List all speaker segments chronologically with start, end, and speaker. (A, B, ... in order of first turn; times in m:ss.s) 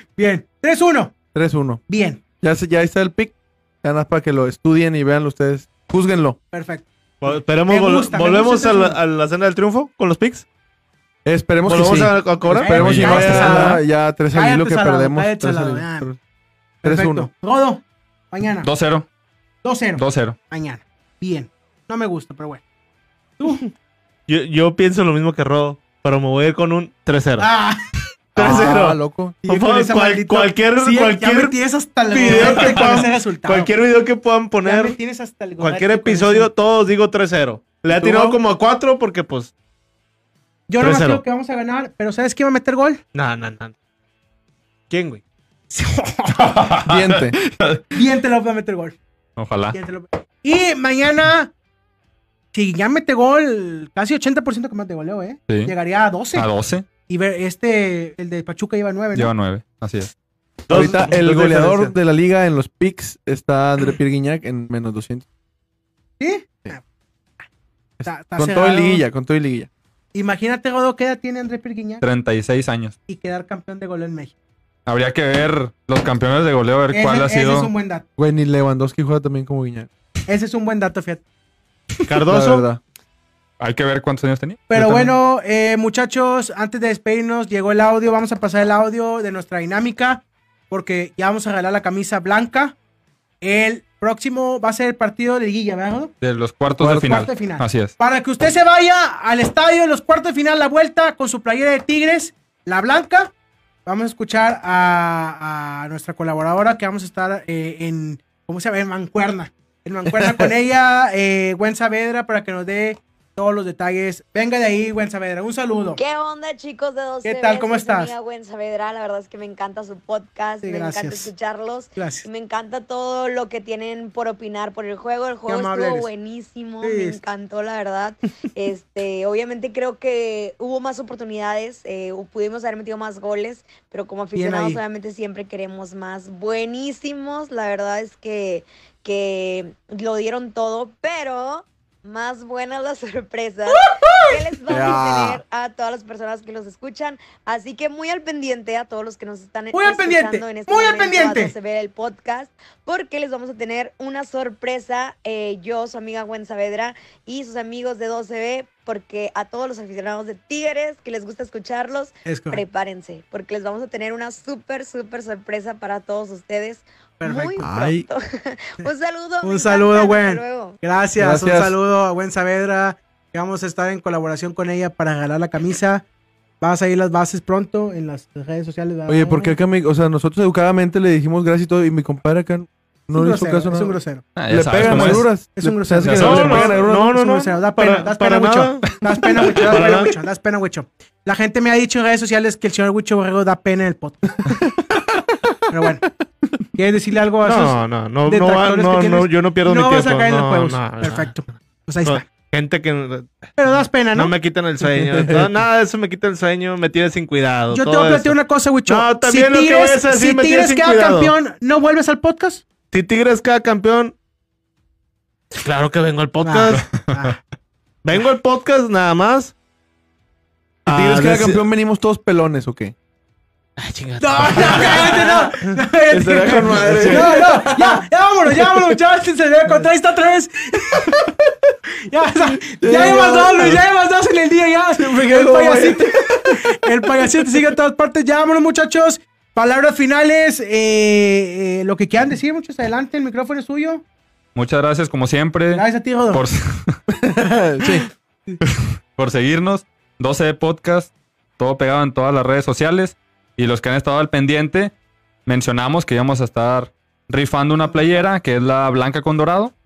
0:00.2-0:01.2 A
0:01.3-0:01.8 B
0:01.9-0:02.2 A
0:02.4-0:06.4 B
0:06.5-0:09.0 A
0:07.2-0:10.4 C
0:11.2-0:16.2 B
0:11.6-0:13.7 C
0:12.5-0:16.1 A
0:12.8-0:13.3 D
0:16.8-0:18.7 A
0:16.8-0:17.3 B
0:18.6-0:19.1 D
0:19.6-0:22.6 A
0:20.0-0:20.4 D
0:23.4-0:23.7 A
0:24.3-0:27.5 C
0:27.4-0:27.8 A
0:28.4-0:31.6 C
0:28.4-0:29.4 B
0:29.4-0:33.7 A
0:32.1-0:35.0 C
0:34.6-0:36.5 A
0:35.6-0:39.5 C
0:37.9-0:38.4 B
0:40.7-0:43.0 A
0:40.8-0:41.2 C
0:43.1-0:43.7 C
0:44.9-0:45.2 C
0:45.7-0:46.6 A
0:46.4-0:47.8 D
0:46.9-0:47.4 B
0:47.9-0:49.0 A
0:49.4-0:49.8 D
0:49.7-0:51.5 A
0:52.5-0:56.5 A
0:56.4-0:56.8 D
0:57.1-0:59.3 A
0:59.2-1:00.1 D
1:00.7-1:01.9 C
1:00.7-1:05.3 B
1:06.2-1:06.8 A
1:08.0-1:09.7 B
1:08.1-1:09.0 A
1:10.1-1:12.0 A
1:12.0-1:13.0 D
1:13.1-1:14.3 A
1:14.9-1:17.7 D
1:16.9-1:18.0 A
1:18.2-1:19.9 B
1:20.3-1:21.2 A
1:22.1-1:22.6 C
1:22.3-1:22.8 B
1:23.6-1:25.0 D
1:24.7-1:32.8 A
1:24.8-1:25.1 B
1:33.4-1:36.1 A
1:36.2-1:37.9 D
1:36.7-1:37.3 B
1:37.0-1:43.3 A
1:43.9-1:56.0 A
1:56.0-2:50.8 E
1:57.2-1:58.1 A
2:00.6-2:01.3 A
2:02.0-2:02.3 A
2:05.5-2:06.1 A
2:06.8-2:07.2 A
2:14.4-2:14.8 A
2:23.7-2:24.4 A
2:24.7-2:25.4 B
2:29.7-2:31.5 A
2:42.3-2:42.6 A
2:47.2-2:47.7 A
2:47.6-2:48.1 B
2:49.4-2:56.0 A
2:51.2-2:51.8 B
2:56.6-2:59.6 A
2:59.1-3:04.0 B
3:03.2-3:04.2 A
3:04.4-3:05.3 D
3:04.5-3:07.1 B
3:04.8-3:14.4 A
3:06.0-3:06.4 D
3:06.2-3:10.1 C
3:14.4-3:15.4 B
3:15.7-3:16.0 A
3:16.8-3:22.2 A
3:17.4-3:23.5 C
3:23.6-3:24.3 A
3:24.2-3:28.4 C
3:24.8-3:25.6 B
3:27.7-3:32.6 A
3:28.9-3:31.3 C
3:32.9-3:34.2 C
3:35.5-3:37.1 C
3:36.4-3:37.4 A
3:38.0-3:39.5 C
3:40.9-3:41.6 C
3:40.9-3:42.9 B
3:43.8-3:45.8 C
3:44.2-3:51.1 A
3:46.1-3:49.0 B
3:46.7-3:47.3 C
3:51.0-3:51.5 B
3:52.1-4:04.0 A
3:52.7-3:53.8 B
3:55.0-3:57.7 B
4:04.6-4:07.0 D
4:05.7-4:06.4 A
4:07.2-4:08.1 B
4:08.6-4:14.9 D
4:15.5-4:19.7 D